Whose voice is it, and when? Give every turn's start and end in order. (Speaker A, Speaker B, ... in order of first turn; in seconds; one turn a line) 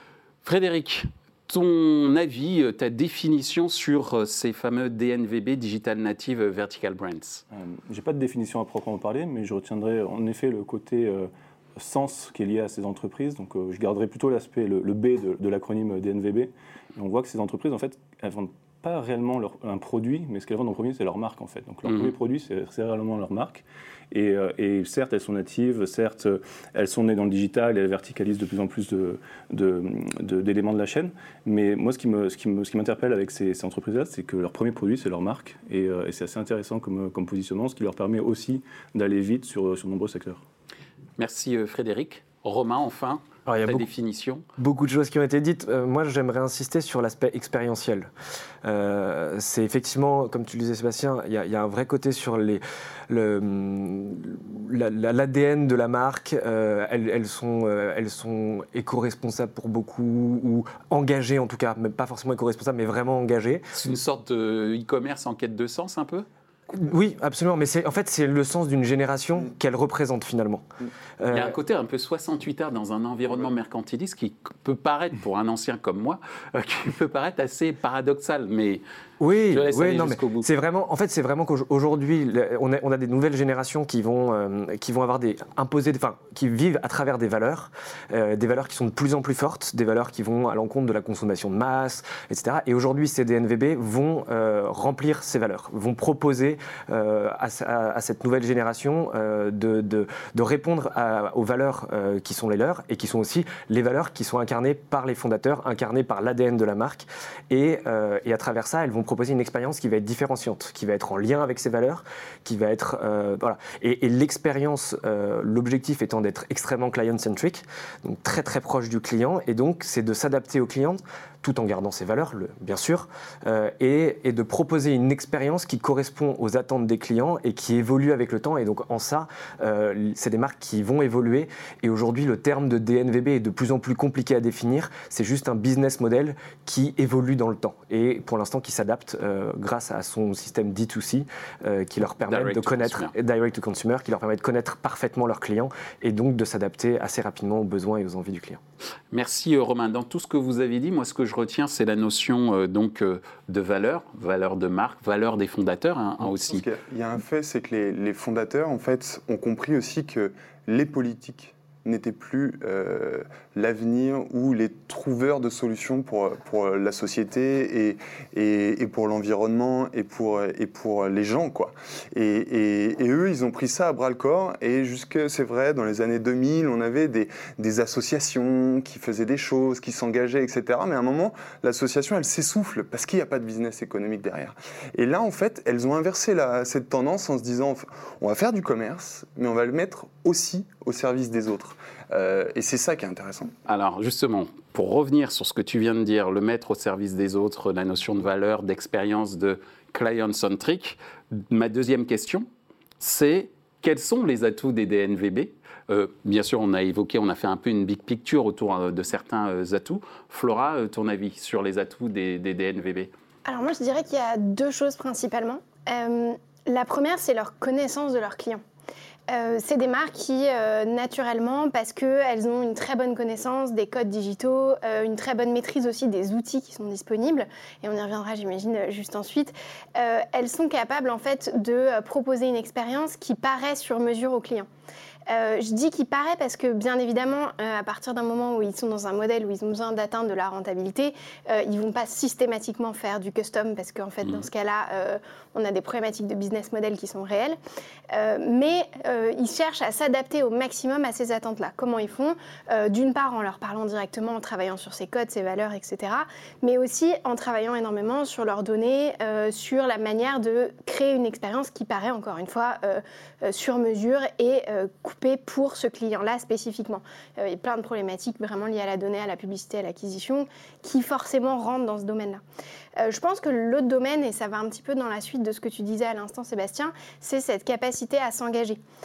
Speaker A: 0.4-7.4
Speaker B: 7.5-40.4
Speaker A: 41.2-44.5
Speaker C: 43.5-43.9
Speaker C: 44.6-48.1
Speaker C: 48.6-63.6
Speaker A: 63.7-66.3
Speaker C: 66.7-70.7
Speaker C: 71.2-71.5
Speaker A: 71.3-78.8
Speaker C: 79.2-148.6
Speaker A: 79.5-80.5
Speaker A: 142.3-143.1
Speaker A: 149.1-156.7
Speaker D: 156.3-193.5
Speaker A: 193.7-202.5
Speaker A: 203.0-213.1
Speaker E: 213.5-218.6
Speaker E: 219.3-234.7
Speaker E: 235.3-247.6
Speaker E: 248.1-272.4
Speaker E: 273.0-278.8